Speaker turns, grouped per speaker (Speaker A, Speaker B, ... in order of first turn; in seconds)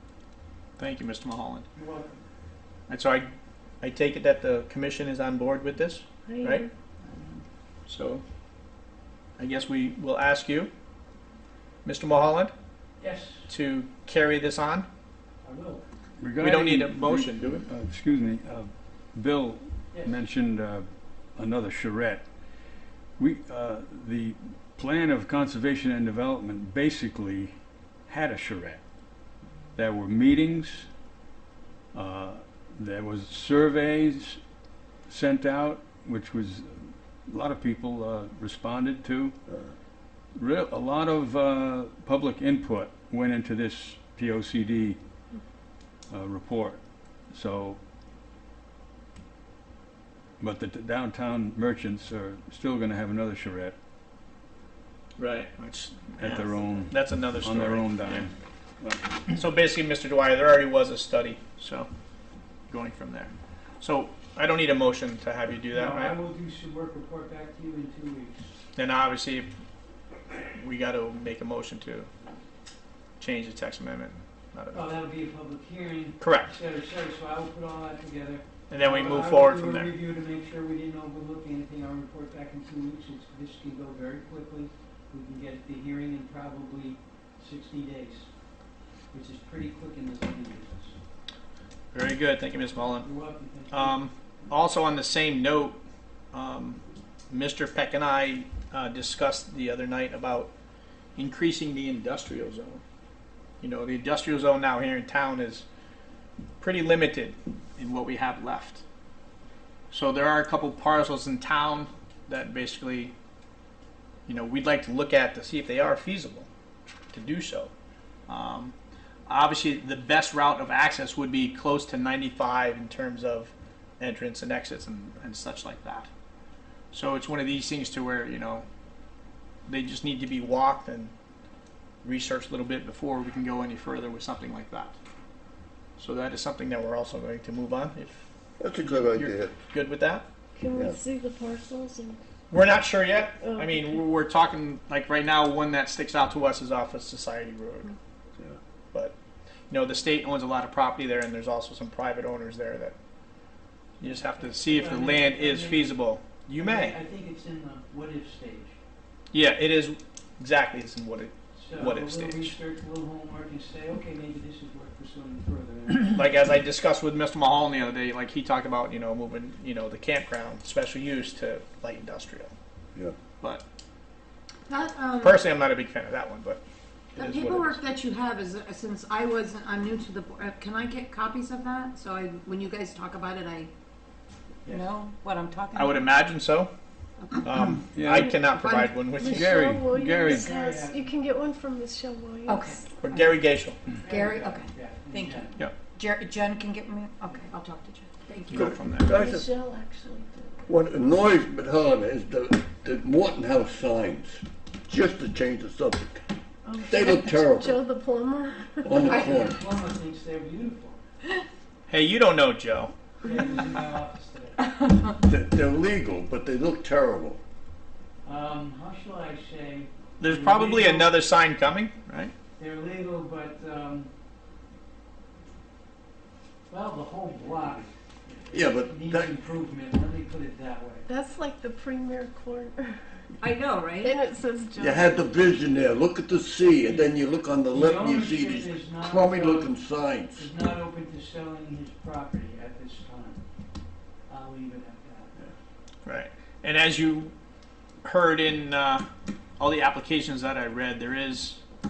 Speaker A: 0.8-1.7, 2.9-3.3, 3.8-6.6, 7.9-8.2, 9.4-10.7, 11.8-12.5, 13.5-14.9, 16.4-17.6, 55.2-58.3, 59.3-61.9, 62.7-66.2, 68.8-69.5, 70.4-72.1, 73.2-74.9, 76.2-76.5, 78.7-79.9, 91.9-93.1, 93.7-95.8, 96.3-100.5, 101.2-102.8, 103.6-105.7, 106.6-108.8, 109.9-113.1, 114.3-116.5, 117.1-117.7, 118.3-118.7, 119.3-126.1, 126.9-128.7, 129.7-131.1, 132.0-134.9, 136.0-140.2, 142.5-147.9, 149.7-152.9, 154.0-156.9, 159.3-162.6, 166.1-172.5, 175.2-176.6, 177.1-177.8, 185.7-186.7, 187.4-189.5, 193.0-193.8, 198.5-199.1, 211.9-212.9, 220.2-222.3, 246.0-247.3, 248.0-249.0, 249.6-251.6
Speaker B: 1.7-2.2, 7.0-7.4, 13.0-13.5, 15.4-15.8, 19.9-20.2, 65.7-68.5, 74.7-88.3, 89.1-91.0, 93.0-94.0, 154.0-156.0, 156.6-158.8, 161.5-166.3, 184.7-184.9, 190.2-191.1, 193.9-195.6, 208.9-211.0, 213.2-214.9, 218.2-221.2, 222.6-224.1, 226.7-231.1, 236.7-237.1, 237.7-239.8, 240.3-243.4, 244.3-245.4
Speaker C: 6.3-6.7, 140.6-142.2, 143.4-143.8, 189.2-192.9, 199.1-200.6, 206.7-208.9, 231.1-232.9, 234.0-235.2
Speaker D: 16.2-22.2, 23.2-28.8, 29.7-30.9, 31.9-34.4, 35.1-39.4, 40.4-45.0, 46.1-47.8, 50.4-53.7, 56.2-59.2, 187.9-188.4, 189.2-190.4
Speaker E: 138.6-139.5, 140.7-141.0, 199.0-199.5, 200.7-206.2, 206.8-207.8, 208.8-209.6, 215.2-217.4, 228.5-229.3, 234.8-240.5
Speaker F: 174.7-175.4, 177.2-183.7, 184.7-186.2, 187.2-187.5, 188.5-189.1, 192.5-193.4, 194.0-198.9, 209.1-209.5, 233.4-234.1